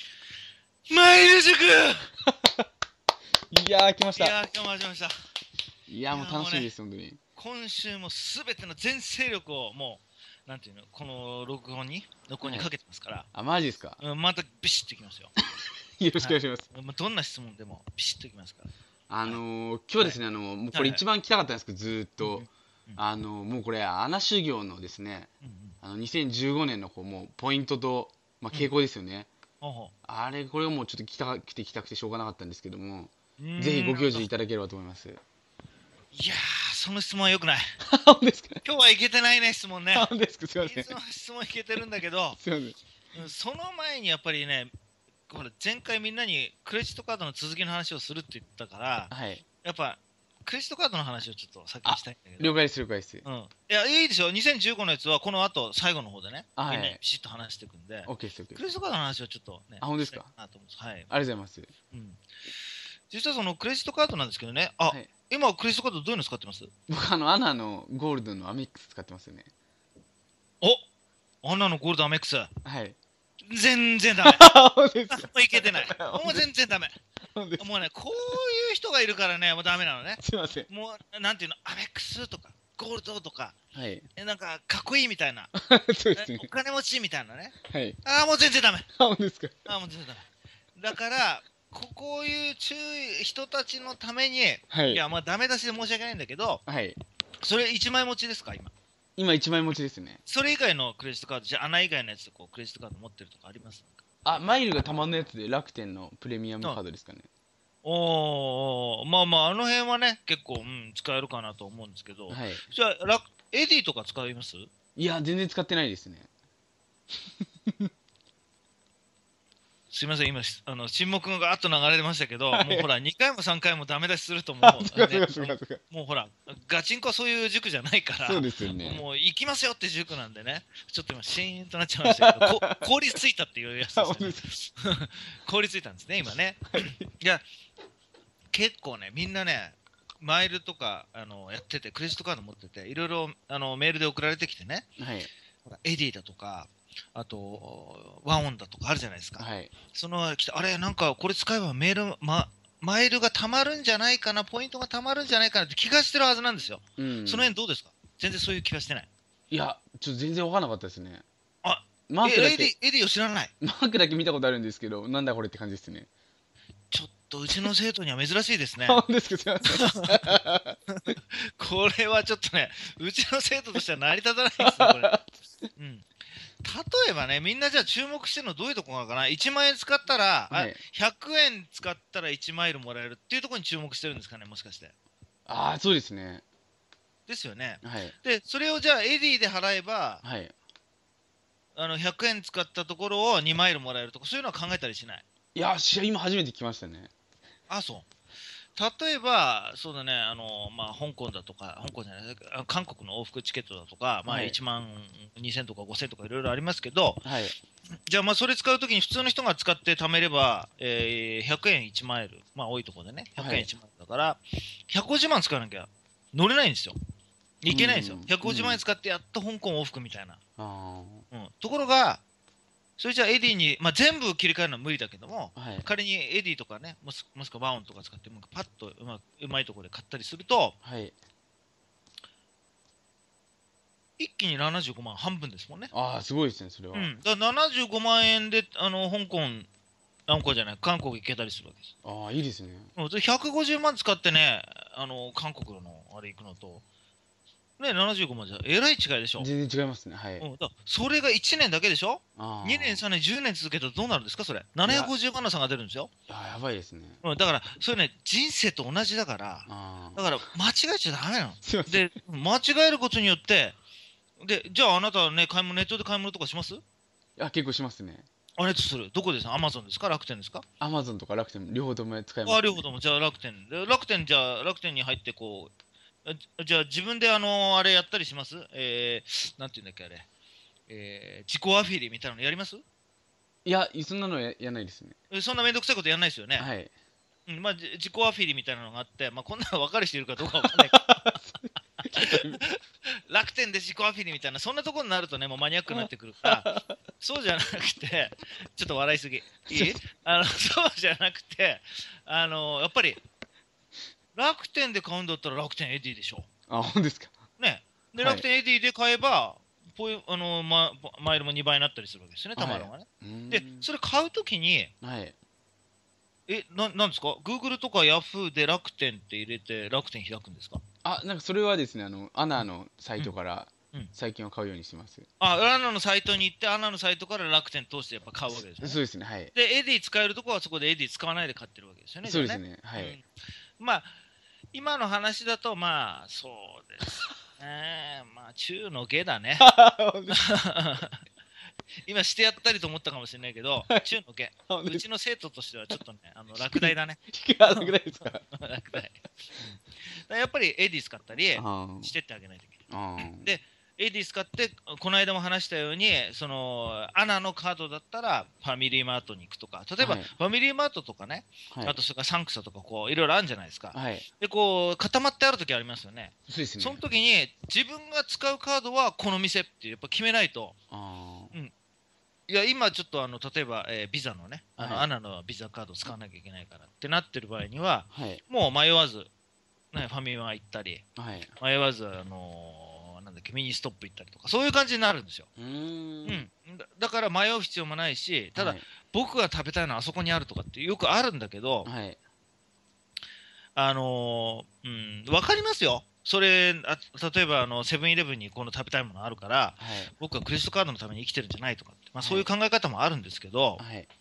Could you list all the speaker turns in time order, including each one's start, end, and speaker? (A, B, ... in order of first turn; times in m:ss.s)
0:00.9-0:02.1 A
0:02.3-0:02.6 B
0:03.5-0:04.4 B
0:04.1-0:05.1 A
0:05.9-0:07.2 B
0:06.1-0:06.7 A
0:07.4-0:13.3 A
0:12.4-0:12.7 B
0:13.3-0:14.0 B
0:14.0-0:15.3 A
0:16.0-0:16.6 B
0:16.2-0:18.7 A
0:19.1-0:25.3 B
0:20.7-0:21.0 A
0:22.2-0:23.0 A
0:25.4-0:25.8 A
0:25.8-0:29.3 B
0:29.6-0:29.9 A
0:30.0-0:35.2 B
0:33.4-0:34.3 A
0:36.1-0:37.7 A
0:37.8-0:38.6 B
0:38.6-0:40.1 A
0:39.9-0:41.0 B
0:40.6-0:42.4 A
0:42.4-0:42.8 B
0:43.1-0:44.7 A
0:45.3-0:49.1 A
0:49.1-0:49.4 B
0:49.6-0:52.6 A
0:51.8-0:53.2 B
0:53.2-1:01.1 A
0:56.6-0:57.0 B
0:58.0-0:58.6 B
0:59.8-1:00.3 B
1:01.1-1:01.7 B
1:01.9-1:02.2 A
1:03.1-1:06.7 A
1:06.9-1:09.5 B
1:11.4-1:12.5 A
1:12.6-1:13.0 B
1:13.5-1:14.4 A
1:14.2-1:16.5 B
1:15.1-1:16.9 A
1:17.4-1:17.8 B
1:17.6-1:23.6 A
1:20.2-1:20.7 B
1:23.7-1:24.0 B
1:24.2-1:25.5 A
1:25.6-1:26.5 B
1:26.1-1:28.9 A
1:27.7-1:28.0 B
1:29.0-1:29.7 B
1:29.6-1:36.6 A
1:34.7-1:35.0 B
1:36.6-1:37.0 B
1:37.4-1:38.7 A
1:39.2-1:40.2 B
1:40.2-1:44.0 A
1:44.2-1:47.3 B
1:47.8-1:54.7 A
1:52.3-1:52.6 B
1:55.0-1:56.3 B
1:59.9-2:17.4 A
2:02.5-2:02.9 B
2:04.6-2:05.8 B
2:08.2-2:09.0 B
2:12.1-2:12.9 B
2:14.0-2:14.4 B
2:16.8-2:17.0 B
2:18.5-2:24.8 A
2:25.0-2:25.3 B
2:25.6-2:39.1 A
2:29.4-2:29.7 B
2:37.0-2:37.5 B
2:39.5-2:41.2 B
2:41.6-2:43.5 A
2:42.1-2:42.7 B
2:43.6-2:46.1 B
2:46.9-2:49.0 A
2:48.8-2:50.8 B
2:49.8-2:50.4 A
2:50.9-2:55.1 A
2:54.6-2:55.3 B
2:55.8-2:56.1 A
2:56.6-3:04.9 A
3:00.5-3:00.8 B
3:05.5-3:06.4 B
3:07.3-3:10.2 A
3:07.8-3:08.1 B
3:10.2-3:10.5 B
3:11.7-3:15.2 A
3:15.5-3:17.1 B
3:17.7-3:18.1 A
3:18.8-3:27.2 A
3:24.2-3:24.6 B
3:27.2-3:27.5 B
3:28.0-3:37.0 A
3:33.4-3:33.7 B
3:37.6-3:40.4 A
3:37.7-3:38.8 B
3:40.6-3:41.2 B
3:41.3-3:42.2 A
3:43.0-3:50.8 A
3:45.5-3:45.9 B
3:50.8-3:51.1 B
3:54.2-3:55.9 A
3:55.9-3:57.1 B
3:56.9-3:59.7 A
4:00.3-4:01.9 A
4:02.0-4:02.9 B
4:03.0-4:06.8 A
4:07.8-4:09.5 A
4:09.4-4:10.5 B
4:10.4-4:16.1 A
4:12.4-4:13.0 B
4:14.8-4:15.1 B
4:16.3-4:17.2 B
4:17.2-4:23.8 A
4:19.7-4:20.3 B
4:21.6-4:22.1 B
4:24.4-4:26.8 A
4:27.4-4:28.2 B
4:28.6-4:30.6 A
4:30.8-4:32.8 B
4:32.4-4:35.7 A
4:36.2-4:40.3 A
4:40.9-4:42.8 A
4:43.6-4:45.2 B
4:45.3-4:46.7 A
4:46.6-4:46.9 B
4:47.5-4:51.4 A
4:50.6-4:52.6 B
4:52.2-4:56.7 A
4:55.9-4:56.9 B
4:57.2-5:03.2 A
4:59.7-5:00.0 B
5:04.3-5:06.5 A
5:06.7-5:07.4 B
5:07.6-5:14.9 A
5:08.2-5:08.4 B
5:12.6-5:13.9 B
5:15.0-5:15.3 B
5:16.5-5:20.8 A
5:21.0-5:25.3 B
5:25.4-5:29.0 A
5:28.5-5:29.5 B
5:29.5-5:33.3 A
5:32.2-5:33.2 B
5:33.8-5:34.2 A
5:34.7-5:39.6 A
5:39.6-5:40.4 B
5:40.3-5:41.2 A
5:42.0-6:10.7 A
5:43.9-5:44.1 B
5:44.7-5:45.0 B
5:46.6-5:48.4 B
5:51.5-5:52.1 B
5:52.9-5:53.5 B
6:00.0-6:00.3 B
6:01.7-6:02.0 B
6:03.9-6:04.3 B
6:06.5-6:07.0 B
6:10.9-6:11.6 B
6:12.5-6:19.3 A
6:14.8-6:15.1 B
6:18.1-6:18.4 B
6:19.9-6:21.0 A
6:21.2-6:21.5 B
6:21.6-6:25.5 A
6:25.6-6:26.5 B
6:26.2-6:31.9 A
6:28.6-6:28.8 B
6:31.8-6:32.2 B
6:33.7-6:43.8 A
6:39.8-6:40.1 B
6:42.2-6:42.5 B
6:43.8-6:44.1 B